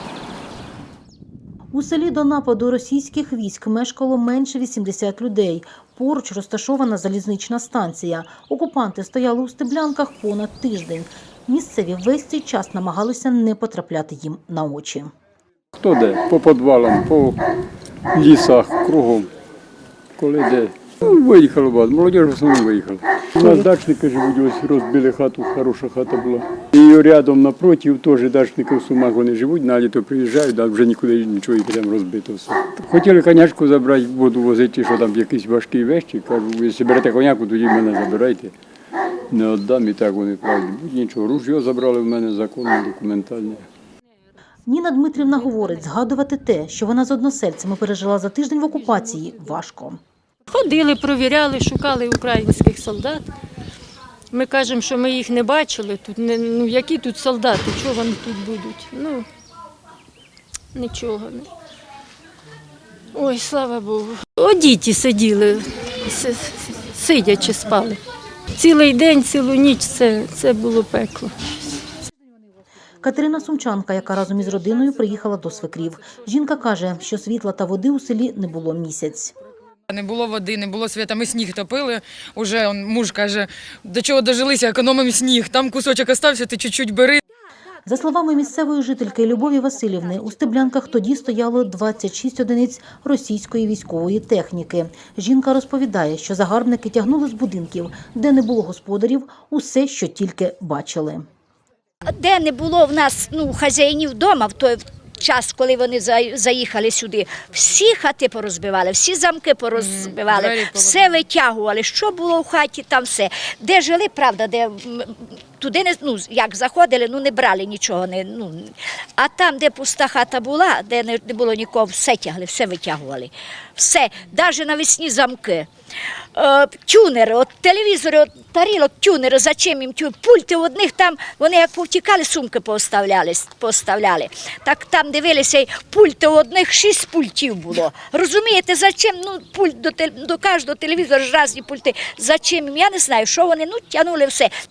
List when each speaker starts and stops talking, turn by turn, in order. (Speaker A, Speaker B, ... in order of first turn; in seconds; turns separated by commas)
Speaker A: 1.7-15.1, Speaker B: 15.8-17.4, Speaker B: 18.1-19.3, Speaker B: 20.2-38.5, Speaker B: 39.3-43.7, Speaker A: 44.7-50.0, Speaker C: 50.5-53.3, Speaker C: 54.3-59.2, Speaker C: 60.7-61.5, Speaker C: 63.1-68.0, Speaker C: 68.5-71.3, Speaker A: 73.0-79.3, Speaker D: 79.9-87.2, Speaker A: 87.8-101.2, Speaker E: 102.1-125.7, Speaker D: 109.8-111.1, Speaker E: 126.3-144.5